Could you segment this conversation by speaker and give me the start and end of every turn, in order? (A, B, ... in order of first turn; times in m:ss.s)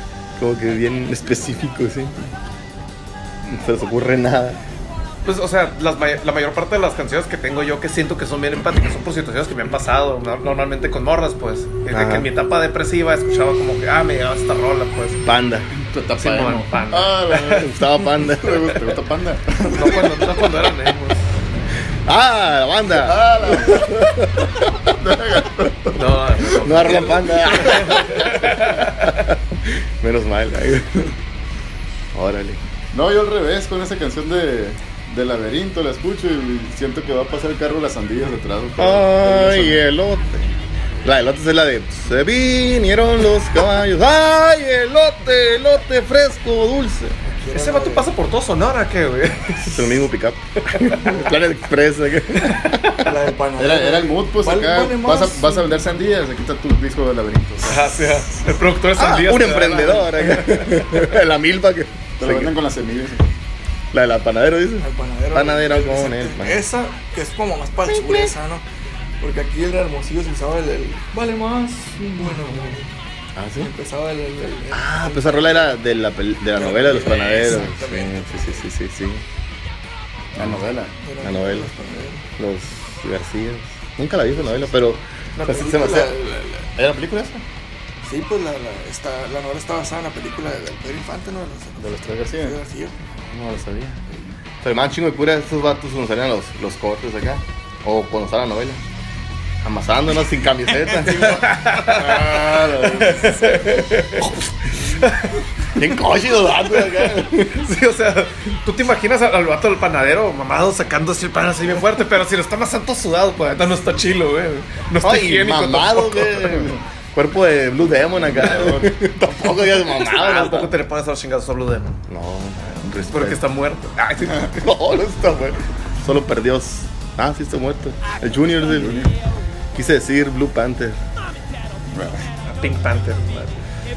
0:00.4-0:02.3 A
0:03.5-0:04.6 A
0:05.2-0:15.2 B
0:11.9-0:12.3 A
0:15.2-0:15.7 A
0:15.9-0:17.7 C
0:16.2-0:17.7 B
0:17.6-0:18.8 A
0:18.2-0:20.3 C
0:19.7-0:21.3 B
0:22.1-0:24.8 A
0:22.9-0:24.1 C
0:24.9-0:27.1 C
0:25.9-0:29.2 B
0:26.6-0:31.1 A
0:32.1-0:32.6 A
0:32.9-0:39.8 C
0:38.8-0:47.2 A
0:47.2-0:48.1 D
0:47.5-0:50.0 B
0:49.6-0:53.0 A
0:50.6-0:51.2 B
0:53.0-0:55.8 D
0:53.6-0:58.0 C
0:57.6-1:00.9 B
0:59.0-1:02.6 A
1:02.2-1:03.3 C
1:03.9-1:06.6 A
1:04.8-1:08.6 D
1:07.9-1:08.3 A
1:09.2-1:12.9 D
1:13.4-1:13.7 A
1:13.6-1:15.7 D
1:14.7-1:19.2 A
1:16.6-1:18.6 D
1:20.4-1:20.6 A
1:20.4-1:20.9 C
1:21.0-1:22.2 D
1:21.2-1:21.7 A
1:22.4-1:26.1 A
1:25.4-1:26.7 D
1:26.8-1:27.4 C
1:26.8-1:27.3 A
1:28.0-1:32.9 D
1:31.8-1:32.6 C
1:33.2-1:34.0 A
1:34.6-1:38.8 A
1:39.6-1:41.5 A
1:41.0-1:44.4 B
1:41.8-1:43.5 C
1:45.0-1:45.4 B
1:45.8-1:47.6 A
1:46.7-1:56.7 B
1:55.0-2:00.7 A
1:58.3-1:58.9 C
1:59.8-2:02.0 B
2:02.1-2:03.4 A
2:03.0-2:04.7 B
2:04.6-2:09.1 A
2:08.7-2:09.1 C
2:09.8-2:11.0 A
2:11.9-2:12.2 C
2:12.5-2:13.6 B